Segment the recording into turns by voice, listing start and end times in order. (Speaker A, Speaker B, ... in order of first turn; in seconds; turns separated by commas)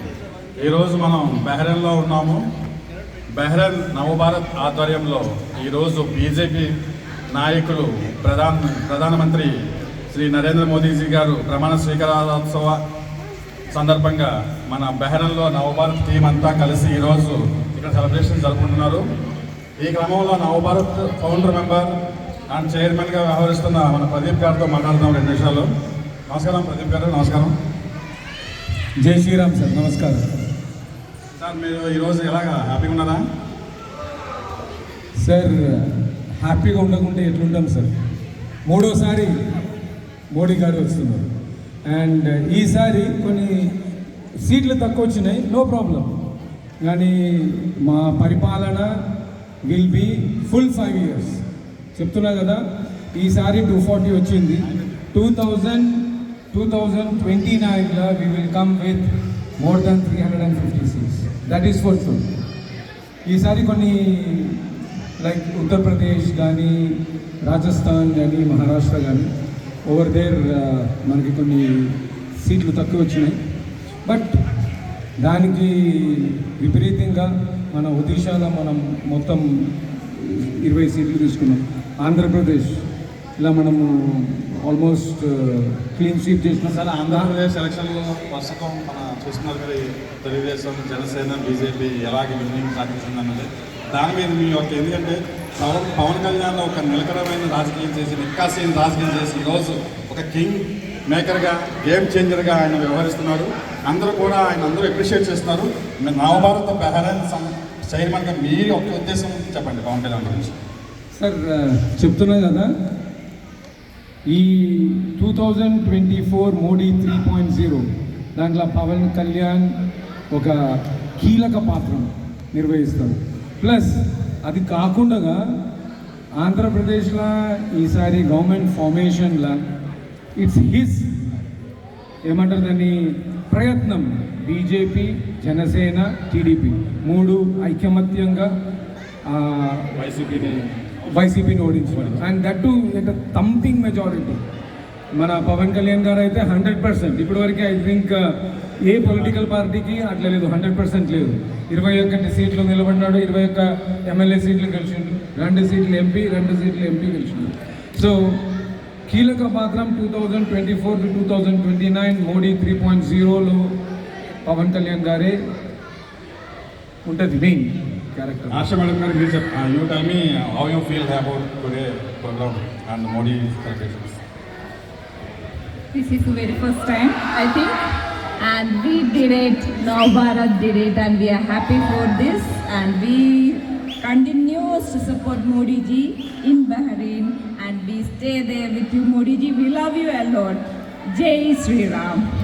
Speaker A: 0.6-2.4, Speaker A: 3.3-6.7, Speaker A: 7.3-9.5, Speaker A: 10.1-12.8, Speaker A: 13.7-19.1, Speaker A: 19.8-21.9, Speaker A: 22.5-25.7, Speaker A: 26.3-27.5, Speaker B: 29.0-30.3, Speaker A: 31.4-33.2, Speaker B: 35.2-37.9, Speaker B: 38.7-39.3, Speaker B: 40.3-41.3, Speaker B: 41.9-43.8, Speaker B: 44.4-46.1, Speaker B: 46.8-49.0, Speaker B: 49.6-51.4, Speaker B: 52.0-59.1, Speaker B: 59.6-62.2, Speaker B: 63.3-69.3, Speaker B: 69.9-73.4, Speaker B: 74.0-74.3, Speaker B: 75.2-82.9, Speaker B: 83.4-87.3, Speaker A: 86.7-110.5, Speaker B: 111.2-112.7, Speaker B: 114.3-119.8, Speaker B: 120.3-125.6, Speaker B: 126.3-129.6, Speaker B: 130.4-131.1, Speaker B: 132.2-138.5, Speaker B: 139.3-140.0, Speaker A: 139.9-141.1, Speaker B: 141.1-144.4, Speaker A: 141.9-142.2, Speaker B: 145.2-148.2, Speaker B: 148.8-158.5, Speaker A: 149.1-149.5, Speaker B: 159.1-163.8, Speaker B: 164.4-165.4, Speaker B: 167.1-168.7, Speaker A: 168.5-174.2, Speaker C: 175.9-177.8, Speaker C: 178.4-192.2